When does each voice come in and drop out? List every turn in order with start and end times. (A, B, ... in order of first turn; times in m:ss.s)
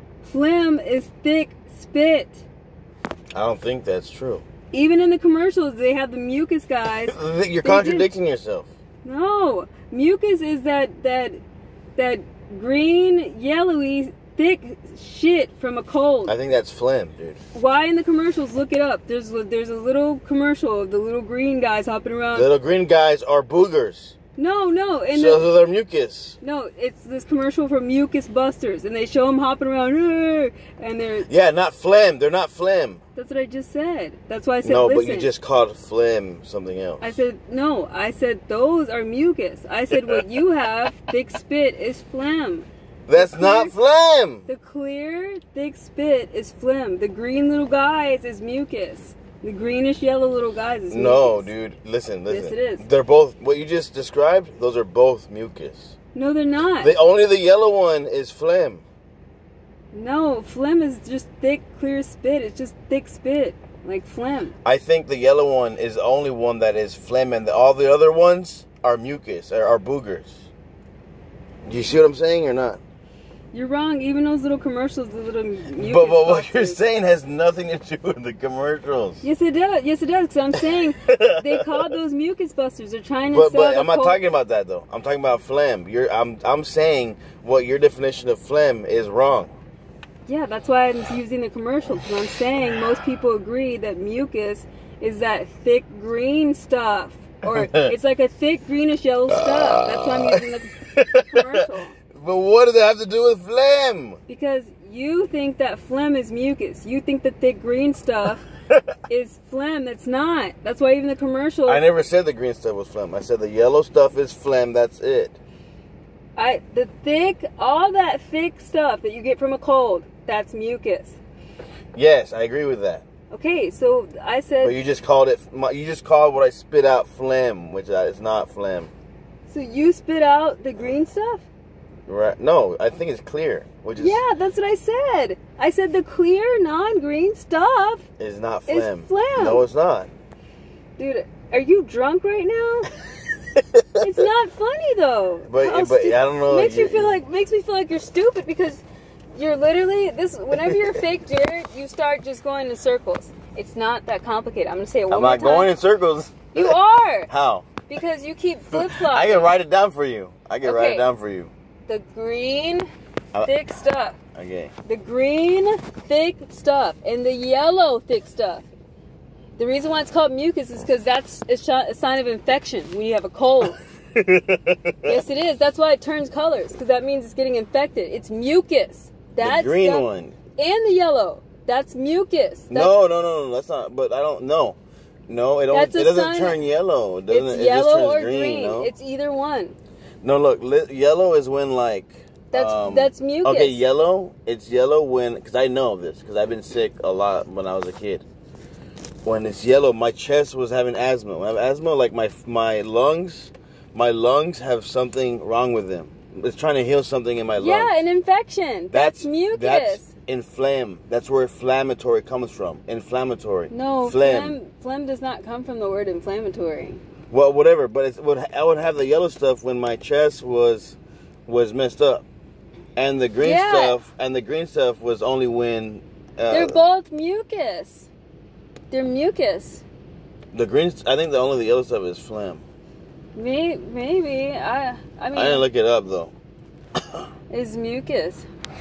0:00.2-0:02.4 A
0:03.3-0:04.4 B
0:04.7-0:08.1 A
0:07.0-0:08.7 B
0:09.0-0:11.4 A
0:12.0-0:16.4 A
0:16.3-0:17.4 B
0:17.5-0:22.5 A
0:22.3-0:24.1 B
0:24.4-0:25.5 A
0:25.1-0:26.4 B
0:26.4-0:31.3 A
0:31.3-0:33.0 B
0:33.2-0:35.3 A
0:34.6-0:37.2 B
0:37.0-0:43.7 A
0:39.9-0:40.2 B
0:43.1-0:44.5 B
0:44.5-0:51.5 A
0:50.9-0:56.0 B
0:52.3-0:52.8 A
0:56.1-0:56.9 A
0:56.8-0:58.8 B
0:59.9-1:04.5 A
1:04.6-1:10.5 B
1:11.7-1:12.8 B
1:13.5-1:16.8 A
1:15.7-1:19.2 B
1:19.2-1:24.2 A
1:20.8-1:21.9 B
1:23.3-1:29.5 B
1:30.3-1:42.0 A
1:37.4-1:37.9 B
1:39.3-1:44.2 B
1:44.3-1:48.5 A
1:49.1-1:51.8 A
1:51.7-1:55.4 B
1:56.4-2:01.2 A
2:01.9-2:03.0 B
2:03.3-2:04.8 A
2:04.6-2:08.9 B
2:09.5-2:11.5 A
2:12.1-2:14.2 B
2:14.0-2:18.1 A
2:18.2-2:20.1 B
2:18.7-2:19.6 A
2:21.0-2:22.9 A
2:23.6-2:24.1 B
2:24.0-2:28.8 A
2:25.5-2:27.2 B
2:29.4-2:35.7 A
2:35.1-2:36.8 B
2:36.5-2:37.3 A
2:37.3-2:37.7 B
2:37.9-2:39.6 A
2:38.7-2:41.5 B
2:40.6-2:41.1 A
2:41.9-2:42.9 A
2:43.4-2:44.2 A
2:44.4-2:44.7 B
2:44.8-2:48.7 A
2:49.6-2:53.8 A
2:54.2-2:55.2 B
2:55.0-3:02.9 A
2:59.4-3:00.4 B
3:02.7-3:04.8 B
3:05.3-3:08.9 B
3:05.7-3:06.6 A
3:07.3-3:09.8 A
3:10.2-3:18.2 B
3:12.5-3:13.8 A
3:19.2-3:28.0 B
3:27.6-3:30.1 A
3:28.9-3:34.6 B
3:33.7-3:37.0 A
3:37.3-3:42.2 B
3:43.0-3:46.8 B
3:43.4-3:44.0 A
3:46.5-3:48.1 A
3:48.9-3:49.8 A
3:50.5-3:52.6 B
3:53.4-3:55.7 A
3:55.3-3:56.3 B
3:57.5-3:58.4 A